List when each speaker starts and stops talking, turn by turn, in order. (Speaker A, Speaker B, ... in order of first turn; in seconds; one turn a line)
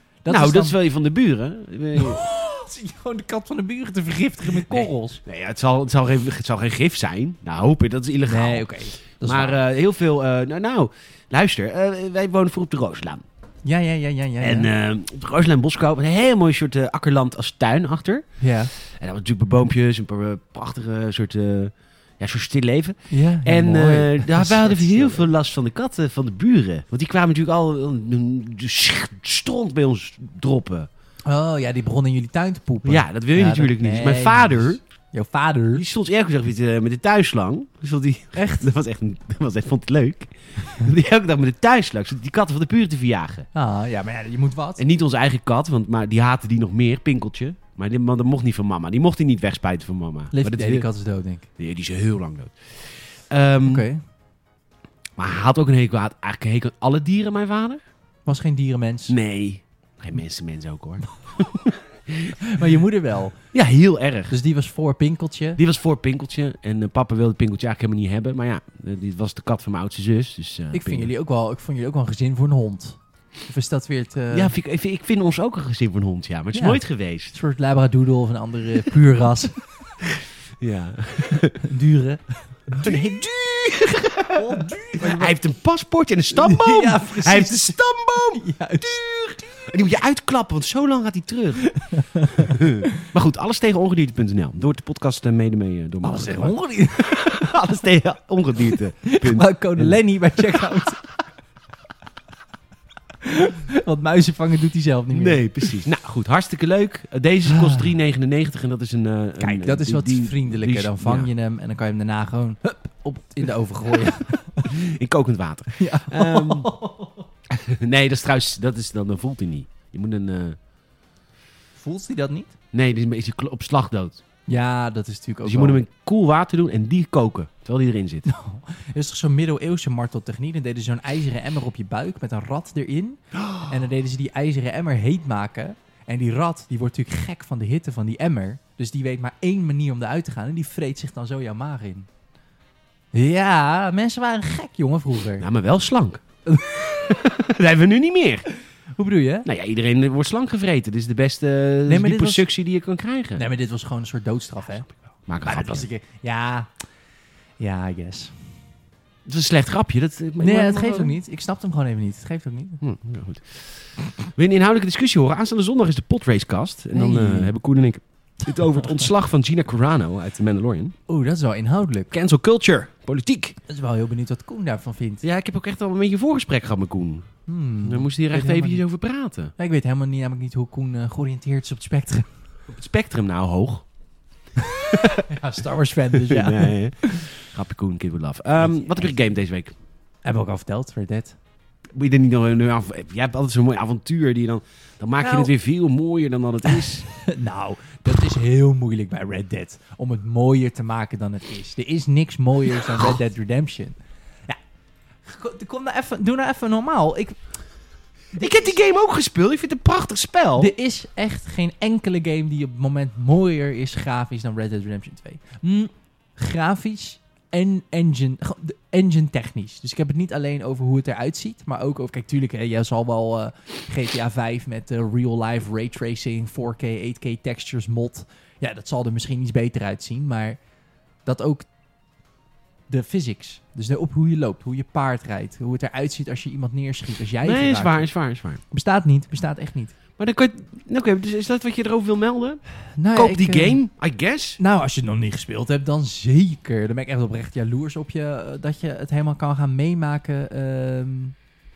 Speaker A: 0.2-0.7
Speaker B: 0.3-2.2
Speaker A: 1.9-5.2
Speaker B: 4.5-8.7
Speaker A: 8.2-9.6
Speaker B: 9.2-13.2
Speaker A: 13.6-14.7
Speaker B: 14.4-30.9
Speaker A: 18.4-18.7
Speaker A: 23.1-25.3
Speaker A: 31.3-35.8
Speaker B: 32.8-34.8
Speaker B: 35.7-43.5
Speaker A: 38.3-38.7
Speaker A: 43.5-44.8
Speaker B: 44.8-50.9
Speaker A: 50.3-51.5
Speaker B: 51.6-53.9
Speaker A: 53.6-54.0
Speaker B: 55.2-57.8
Speaker A: 58.2-59.1
Speaker B: 59.1-62.4
Speaker A: 62.4-63.4
Speaker B: 63.5-64.3
Speaker A: 64.3-65.6
Speaker B: 65.6-71.1
Speaker A: 70.7-74.5
Speaker B: 74.3-77.3
Speaker A: 76.5-79.6
Speaker B: 80.0-81.6
Speaker A: 81.5-83.0
Speaker B: 82.8-91.7
Speaker A: 84.3-85.3
Speaker A: 86.3-89.0
Speaker A: 91.7-92.6
Speaker B: 92.3-100.8
Speaker A: 96.0-97.1
Speaker A: 99.0-101.0
Speaker A: 103.2-105.7
Speaker B: 105.1-111.3
Speaker A: 107.5-107.9
Speaker A: 109.4-114.8
Speaker B: 114.6-116.7
Speaker A: 115.8-117.2
Speaker B: 117.5-120.6
Speaker A: 121.8-122.5
Speaker B: 122.7-124.2
Speaker A: 124.5-125.8
Speaker B: 125.4-128.3
Speaker A: 128.2-142.1
Speaker A: 143.1-145.4
Speaker B: 145.4-146.2
Speaker A: 146.4-147.0
Speaker B: 146.7-148.4
Speaker A: 149.0-149.5
Speaker B: 149.4-153.4
Speaker A: 151.8-152.4
Speaker A: 153.3-154.9
Speaker B: 155.3-155.9
Speaker A: 155.4-156.7
Speaker A: 157.6-158.3
Speaker B: 159.2-161.1
Speaker A: 160.4-162.8
Speaker B: 162.8-170.9
Speaker A: 166.9-167.5
Speaker A: 171.1-172.1
Speaker B: 172.1-173.6
Speaker A: 173.7-175.2
Speaker B: 175.2-177.3
Speaker A: 177.5-178.8
Speaker B: 177.8-179.5
Speaker A: 179.6-182.3
Speaker B: 182.7-183.8
Speaker A: 184.6-187.3
Speaker B: 184.9-185.2
Speaker B: 186.2-189.7
Speaker A: 188.6-189.1
Speaker A: 190.2-191.4
Speaker B: 191.9-197.1
Speaker A: 195.2-195.5
Speaker A: 196.7-203.9
Speaker A: 205.2-207.4
Speaker A: 208.3-208.7
Speaker B: 208.3-210.7
Speaker A: 210.6-230.6
Speaker A: 231.2-231.7
Speaker A: 232.9-238.1
Speaker B: 237.4-238.6
Speaker A: 238.7-239.9
Speaker B: 240.2-242.6
Speaker A: 243.0-243.8
Speaker B: 243.1-244.6
Speaker A: 244.6-251.3